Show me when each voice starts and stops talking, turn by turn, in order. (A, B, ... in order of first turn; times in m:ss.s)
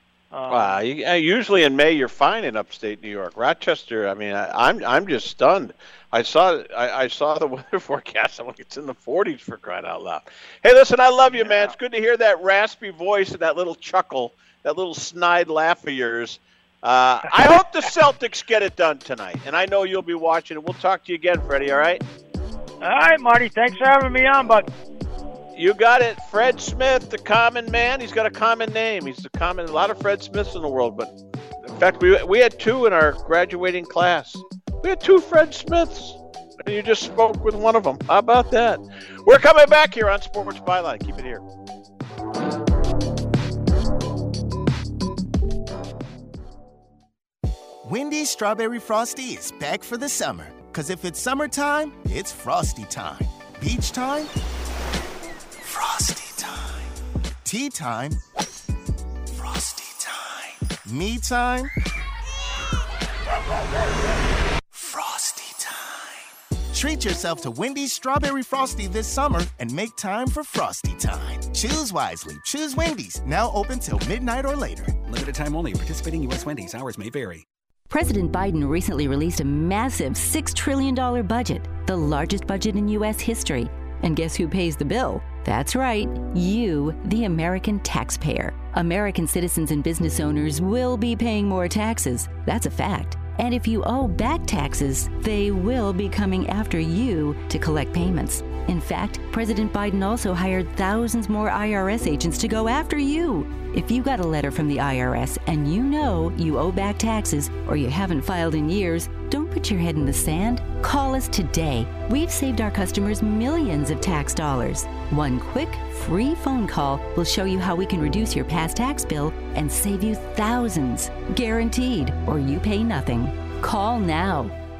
0:00.3-0:00.8 A
0:00.5-0:22.0 B
0:11.2-0:11.8 A
0:22.8-0:24.7 A
0:25.5-0:31.1 B
0:31.7-0:41.4 B
0:47.8-0:54.3 C
0:55.6-0:56.9 C
0:57.4-0:58.2 C
0:59.3-1:01.7 C
1:04.7-1:15.0 C
1:15.0-1:17.4 D
1:17.9-2:04.5 E